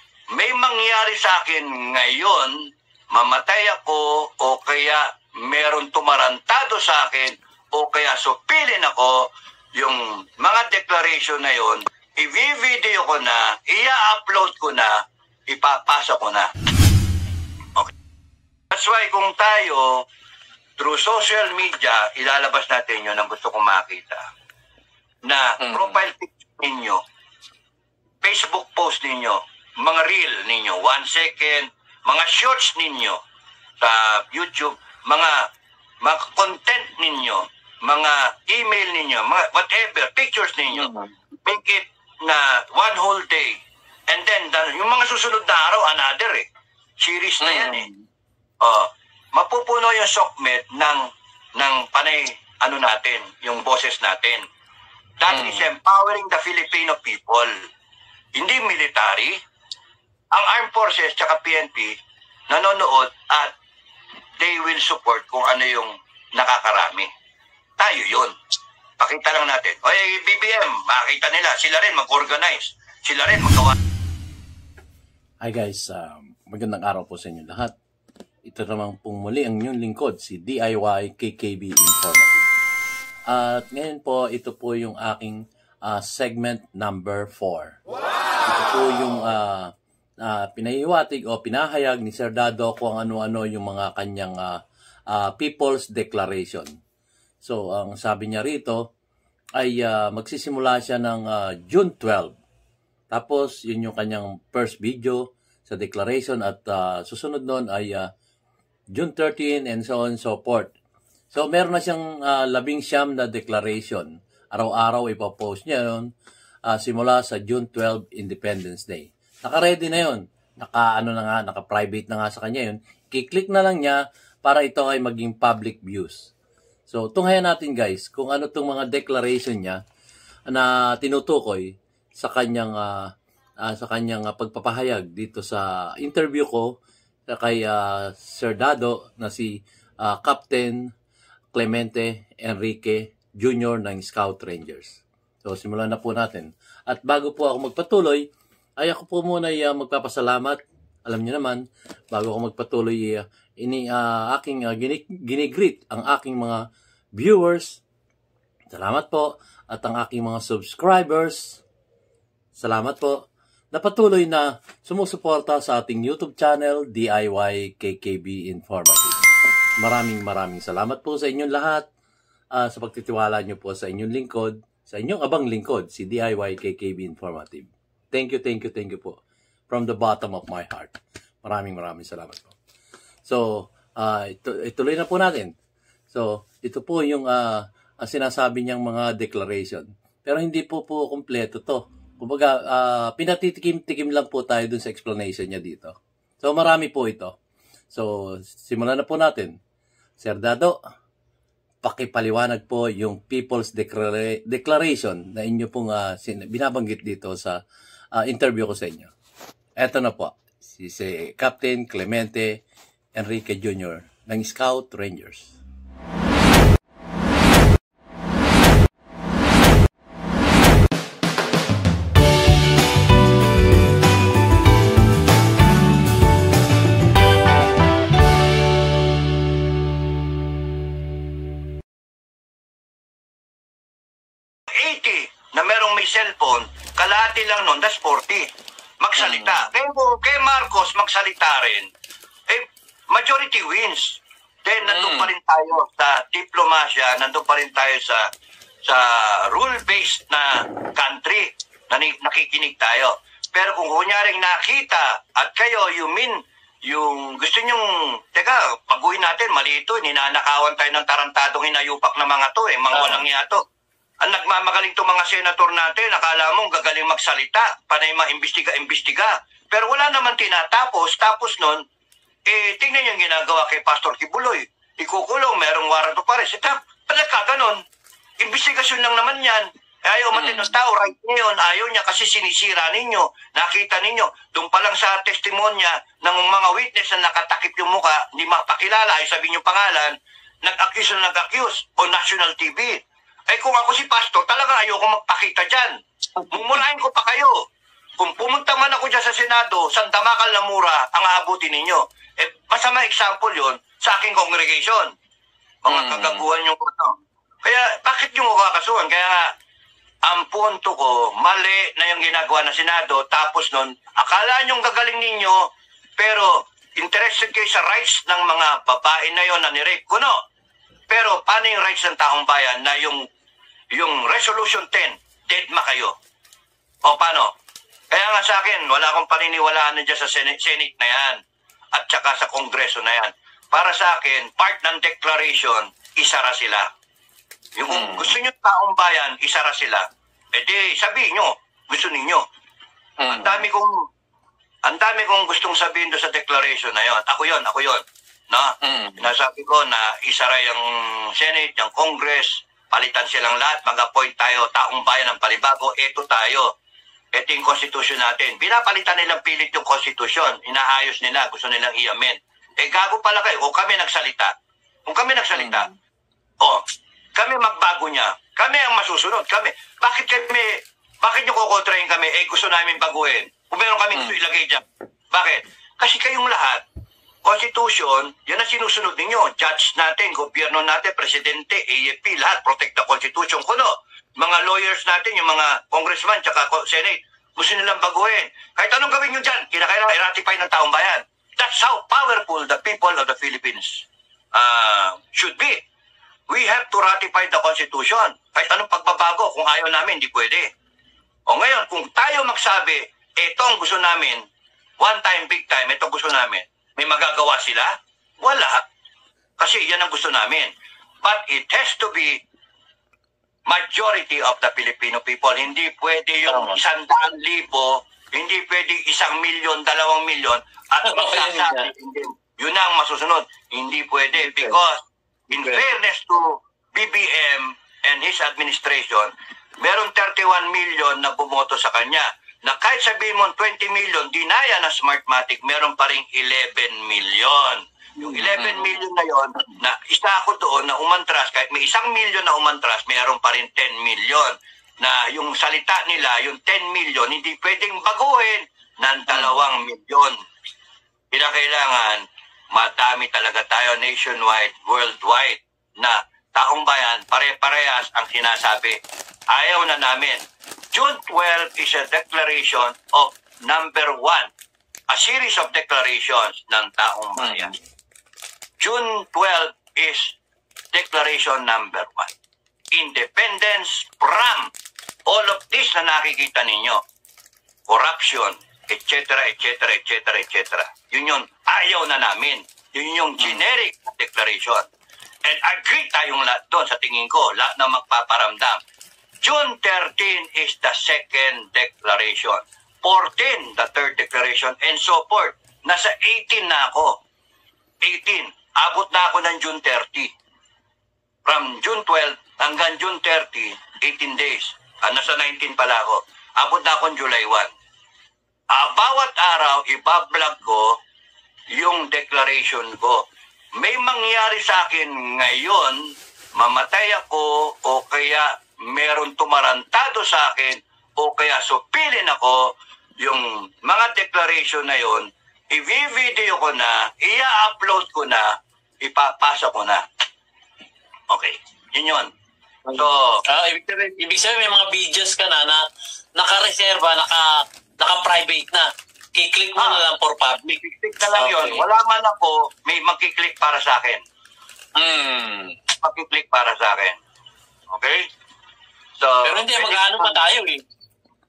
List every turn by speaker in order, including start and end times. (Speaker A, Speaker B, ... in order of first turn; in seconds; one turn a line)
Speaker A: 0.3-2.6
Speaker A: 3.1-16.5
Speaker A: 18.7-20.0
Speaker A: 20.8-24.2
Speaker A: 25.2-27.0
Speaker B: 25.6-26.0
Speaker A: 28.2-33.2
Speaker A: 33.8-35.5
Speaker A: 36.0-40.9
Speaker B: 40.7-41.1
Speaker A: 41.4-43.6
Speaker A: 44.1-46.5
Speaker A: 47.0-47.9
Speaker B: 47.4-48.0
Speaker A: 48.6-51.0
Speaker A: 51.6-54.4
Speaker A: 55.2-57.5
Speaker B: 55.3-55.7
Speaker A: 58.4-59.4
Speaker A: 60.3-62.0
Speaker A: 62.5-63.5
Speaker A: 64.4-67.1
Speaker A: 67.8-68.3
Speaker A: 69.0-73.8
Speaker C: 75.4-77.7
Speaker C: 78.4-82.3
Speaker C: 83.3-87.8
Speaker C: 88.4-89.7
Speaker C: 90.2-94.6
Speaker C: 95.1-96.7
Speaker C: 97.4-98.9
Speaker C: 99.6-102.3
Speaker C: 103.1-108.1
Speaker C: 108.9-110.7
Speaker C: 111.3-116.1
Speaker C: 116.7-126.3
Speaker C: 126.9-129.8
Speaker C: 130.5-133.1
Speaker C: 133.6-136.7
Speaker C: 137.3-140.9
Speaker C: 141.5-157.8
Speaker C: 158.7-161.6
Speaker C: 162.6-169.2
Speaker C: 169.8-171.9
Speaker C: 172.5-182.5
Speaker C: 183.2-185.5
Speaker C: 186.1-197.3
Speaker C: 197.9-199.6
Speaker C: 200.2-200.8
Speaker C: 201.8-207.6
Speaker C: 208.1-209.1
Speaker C: 209.8-212.6
Speaker C: 213.1-215.5
Speaker A: 234.7-238.5
Speaker A: 239.0-241.9
Speaker B: 239.2-239.6
Speaker A: 242.5-248.3
Speaker B: 244.8-245.3
Speaker A: 248.8-263.6
Speaker B: 262.9-263.2
Speaker A: 264.2-271.8
Speaker A: 272.5-277.8
Speaker A: 278.4-295.9
Speaker B: 280.3-280.7
Speaker B: 296.4-296.8
Speaker A: 296.5-297.6
Speaker A: 298.2-305.1
Speaker A: 305.8-309.5
Speaker B: 305.9-306.4
Speaker A: 310.2-315.7
Speaker A: 316.2-320.4
Speaker A: 321.1-323.2
Speaker A: 323.9-326.1
Speaker A: 327.0-327.5
Speaker A: 328.1-331.4
Speaker A: 331.9-336.9
Speaker A: 337.8-342.4
Speaker B: 337.9-338.4
Speaker B: 343.2-343.6
Speaker A: 343.3-343.9
Speaker A: 344.8-356.7
Speaker B: 348.8-349.2
Speaker A: 357.3-364.5
Speaker A: 365.1-365.9
Speaker B: 365.5-365.9
Speaker A: 367.4-376.8
Speaker A: 377.4-395.8
Speaker A: 396.5-400.7
Speaker A: 401.5-404.4
Speaker A: 405.0-408.8
Speaker A: 409.6-410.7
Speaker A: 411.2-412.4
Speaker A: 413.7-450.4
Speaker B: 416.5-416.8
Speaker B: 421.0-421.9
Speaker B: 424.4-424.8
Speaker B: 438.2-439.0
Speaker B: 449.3-449.6
Speaker A: 451.3-459.0
Speaker A: 459.5-464.5
Speaker A: 465.1-467.8
Speaker B: 467.4-467.7
Speaker A: 468.8-470.4
Speaker A: 470.9-472.3
Speaker A: 472.9-474.7
Speaker A: 475.3-477.0
Speaker A: 477.9-484.9
Speaker A: 485.4-488.8
Speaker A: 489.4-497.2
Speaker A: 498.0-500.3
Speaker A: 501.4-507.7
Speaker A: 508.7-511.0
Speaker A: 511.8-513.2
Speaker A: 513.8-516.0
Speaker A: 516.6-530.0
Speaker A: 531.3-532.3
Speaker B: 532.9-535.8
Speaker A: 532.9-533.4
Speaker B: 536.4-540.8
Speaker A: 539.8-540.0
Speaker A: 540.7-544.2
Speaker B: 541.3-541.8
Speaker B: 545.0-545.8
Speaker A: 546.0-547.2
Speaker A: 547.9-548.3
Speaker A: 549.2-550.4
Speaker B: 549.4-550.8